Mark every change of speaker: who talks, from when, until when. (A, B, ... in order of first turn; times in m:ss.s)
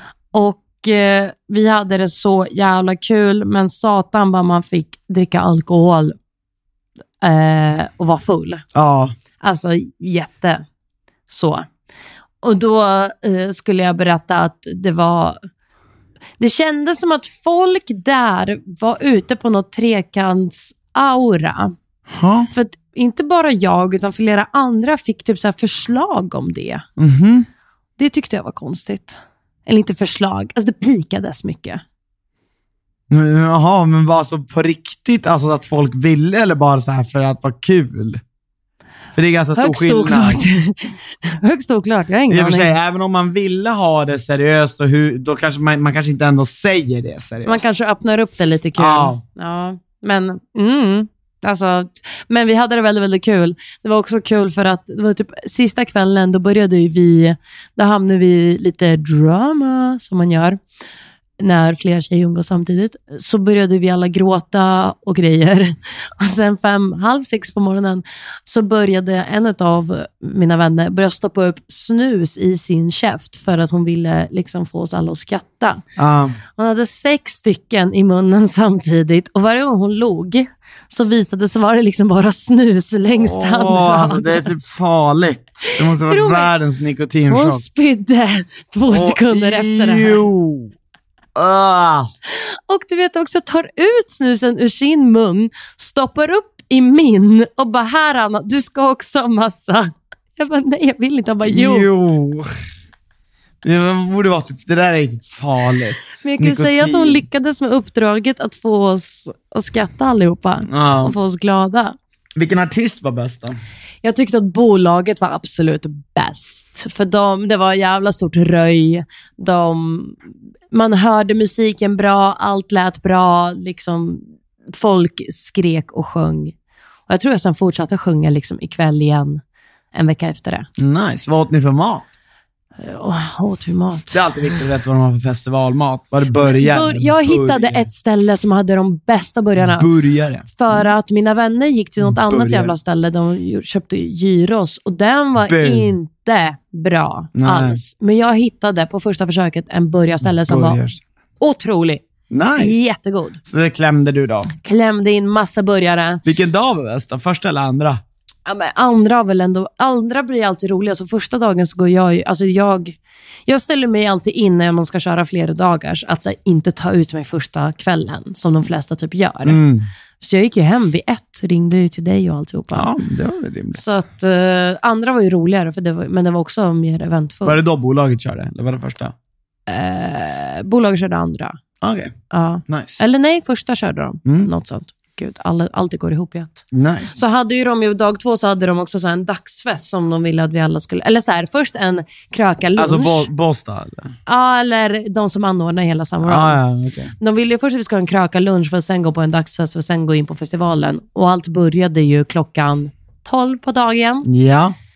0:00.3-0:06.2 A
0:07.2-0:08.6 A
0:08.7-0:09.1 B
0:09.4-0:10.6 A
0:11.3-0:11.6 A
0:12.4-0:15.4 A
0:16.4-0:21.7 A
0:22.1-0:22.5 B
0:22.5-0:26.8 A
0:27.0-0:27.5 B
0:28.0-0:31.8 A
0:33.1-0:38.2 B
0:39.1-0:40.4 B
0:39.6-0:42.7 A
0:42.3-0:47.6 B
0:47.4-1:00.6 A
0:48.8-0:49.2 B
1:01.4-1:15.8 A
1:16.0-1:16.4 B
1:16.6-1:24.5 A
1:23.2-1:27.6 B
1:25.6-1:26.5 A
1:27.3-1:30.2 A
1:28.9-1:30.7 B
1:31.3-1:32.1 B
1:32.4-1:41.9 A
1:41.4-1:42.5 B
1:43.6-1:47.2 B
1:46.2-1:52.0 A
1:50.7-1:51.2 B
1:52.4-1:53.6 B
1:54.0-2:00.2 A
2:00.7-2:06.5 A
2:07.1-2:09.4 A
2:09.9-2:10.7 A
2:10.8-2:12.1 B
2:12.8-2:14.6 A
2:14.1-2:17.9 B
2:16.4-2:19.9 A
2:19.6-2:20.8 B
2:20.5-2:30.8 A
2:22.0-2:22.7 B
2:25.4-2:25.9 B
2:27.3-2:27.8 B
2:30.2-2:31.0 B
2:31.4-2:32.0 A
2:32.3-2:32.8 B
2:32.6-2:33.4 A
2:33.4-2:34.5 B
2:34.6-2:36.2 A
2:36.2-2:38.0 B
2:38.4-2:49.6 A
2:49.4-2:49.9 B
2:50.2-2:52.9 A
2:52.7-2:53.9 B
2:53.7-2:57.6 A
2:57.4-2:59.1 B
2:59.7-3:01.6 A
3:01.8-3:02.1 B
3:02.3-3:13.3 A
3:02.7-3:03.0 B
3:04.2-3:04.5 B
3:06.7-3:07.2 B
3:12.8-3:14.1 B
3:14.2-3:16.6 A
3:16.2-3:17.1 B
3:17.2-3:24.3 A
3:24.2-3:24.7 B